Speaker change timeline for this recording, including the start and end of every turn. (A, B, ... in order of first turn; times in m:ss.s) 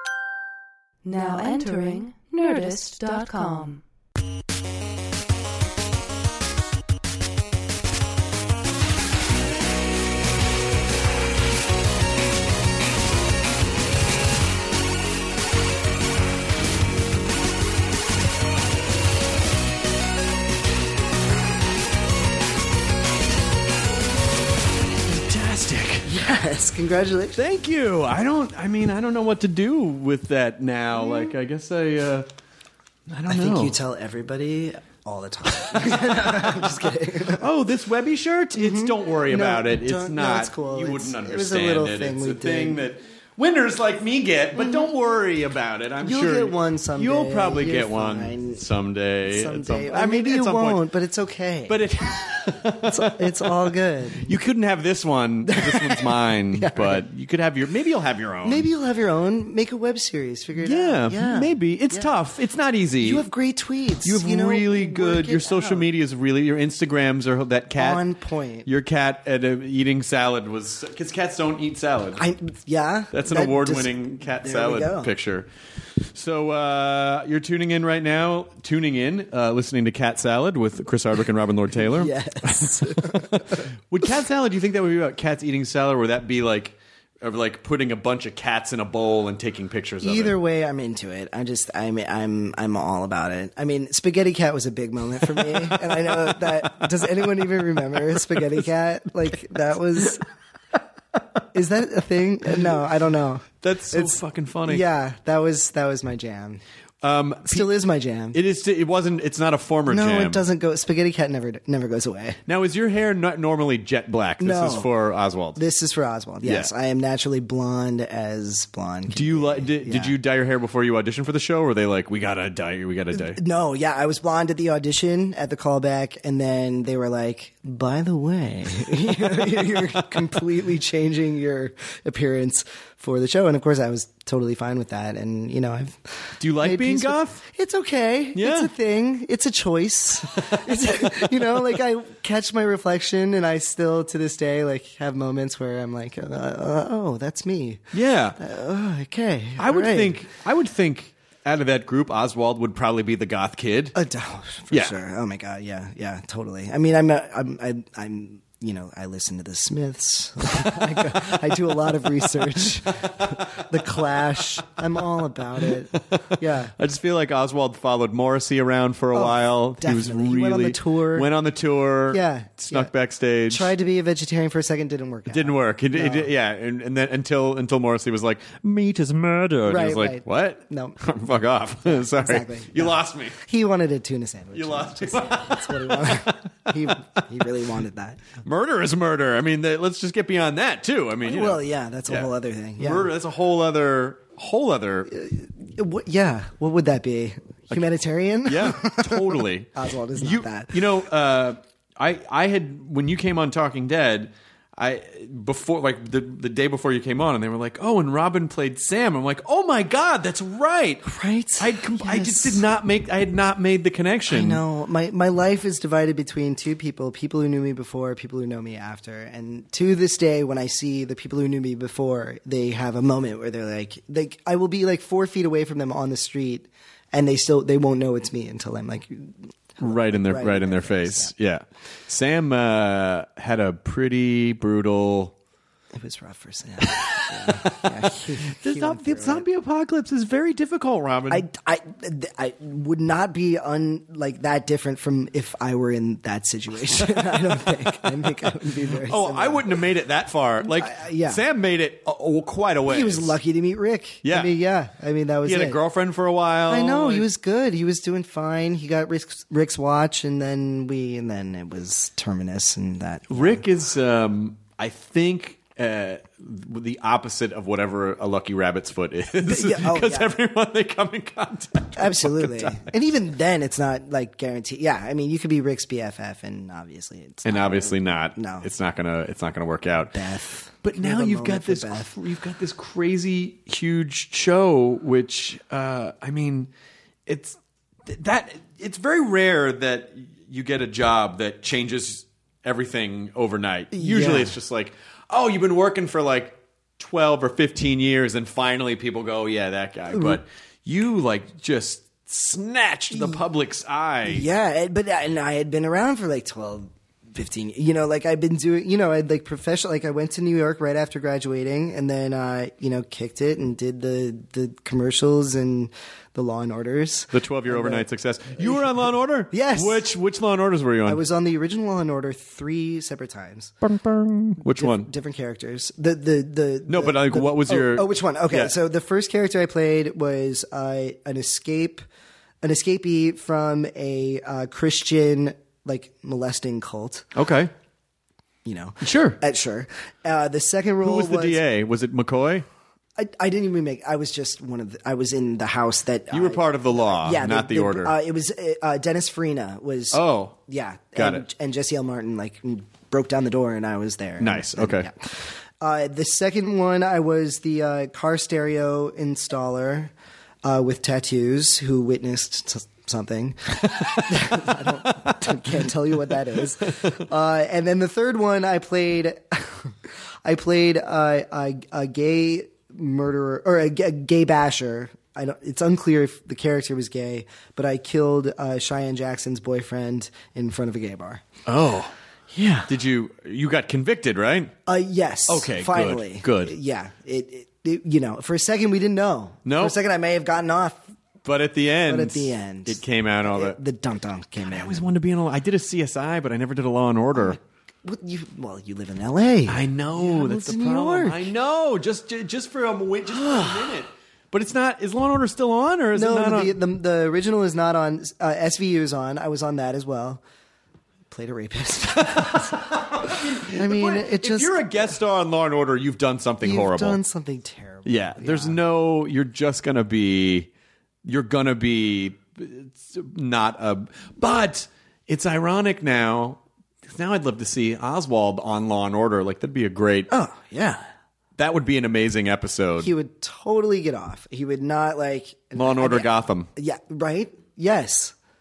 0:01.0-0:03.8 A
0:25.1-0:26.1 B
0:26.1-0:27.4 C
0:27.4-0:32.3 B
0:33.1-0:33.8 B
0:33.3-0:37.5 C
0:37.4-0:50.8 B
0:38.6-0:42.8 C
0:44.6-0:44.9 C
0:46.0-0:48.6 C
0:49.2-0:51.8 C
0:51.7-0:58.7 B
0:52.8-0:54.4 C
0:55.5-0:57.0 C
0:58.4-1:02.1 C
1:00.6-1:03.3 B
1:03.0-1:05.9 C
1:04.0-1:08.0 B
1:07.8-1:08.7 C
1:08.7-1:12.2 B
1:12.2-1:15.1 C
1:13.1-1:15.5 B
1:16.1-1:30.4 B
1:21.7-1:23.7 C
1:30.0-1:40.2 C
1:41.5-1:46.6 C
1:43.6-1:44.8 B
1:47.0-1:47.7 B
1:47.5-1:48.4 C
1:48.3-1:50.4 B
1:49.9-1:52.4 C
1:52.5-1:55.6 B
1:54.4-1:54.9 C
1:55.6-2:00.1 C
1:56.4-1:56.7 B
1:59.1-2:03.4 B
2:03.1-2:27.8 C
2:16.4-2:17.4 B
2:18.4-2:18.7 B
2:27.9-2:28.4 B
2:28.4-2:30.2 C
2:29.6-2:34.0 B
2:34.0-2:46.7 C
2:46.8-2:53.7 B
2:49.1-2:51.3 C
2:52.1-2:52.9 C
2:53.5-2:56.3 C
2:55.3-3:03.4 B
2:59.7-3:01.0 C
3:01.9-3:08.2 C
3:04.5-3:07.2 B
3:08.4-3:15.1 B
3:11.2-3:13.1 C
3:15.1-3:20.9 C
3:18.4-3:34.6 B
3:31.1-3:32.6 C
3:34.3-3:51.3 C
3:49.8-3:55.3 B
3:55.9-3:59.5 C
3:57.0-3:57.9 B
3:58.6-4:01.4 B
4:01.3-4:09.8 C
4:09.1-4:13.4 B
4:10.6-4:11.4 C
4:12.9-4:15.8 C
4:14.2-4:14.5 B
4:15.4-4:17.3 B
4:16.7-4:23.6 C
4:23.3-4:32.9 B
4:29.4-4:30.3 C
4:32.0-4:38.7 C
4:37.4-4:40.2 B
4:40.2-4:42.1 C
4:40.8-4:46.7 B
4:47.3-5:04.5 B
4:53.9-4:54.5 C
5:00.1-5:00.4 C
5:03.1-5:03.4 C
5:04.3-5:18.0 C
5:17.3-5:21.2 B
5:18.6-5:20.1 C
5:21.0-5:23.7 C
5:23.8-5:25.1 B
5:24.7-5:32.0 C
5:26.9-5:28.8 B
5:32.6-5:37.3 C
5:37.4-5:37.7 B
5:38.6-5:41.6 C
5:39.0-5:39.4 B
5:41.0-5:42.7 B
5:43.2-6:00.1 C
5:46.3-5:48.1 B
5:50.1-5:50.6 B
5:51.2-5:51.4 B
5:54.4-5:55.1 B
6:00.6-6:21.4 C
6:21.7-6:22.1 B
6:22.5-6:22.9 C
6:22.9-6:24.7 B
6:24.9-6:31.1 C
6:25.5-6:26.7 B
6:29.7-6:30.0 B
6:31.4-6:33.8 B
6:32.1-6:35.0 C
6:34.6-6:37.6 B
6:37.4-6:41.5 C
6:39.7-6:46.8 B
6:43.3-6:44.0 C
6:46.1-6:50.4 C
6:51.3-6:55.0 C
6:52.6-6:57.2 B
6:56.6-6:58.8 C
6:58.0-7:00.7 B
7:01.3-7:10.3 B
7:10.3-7:11.1 C
7:11.6-7:13.1 B
7:13.0-7:18.4 C
7:15.8-7:16.7 B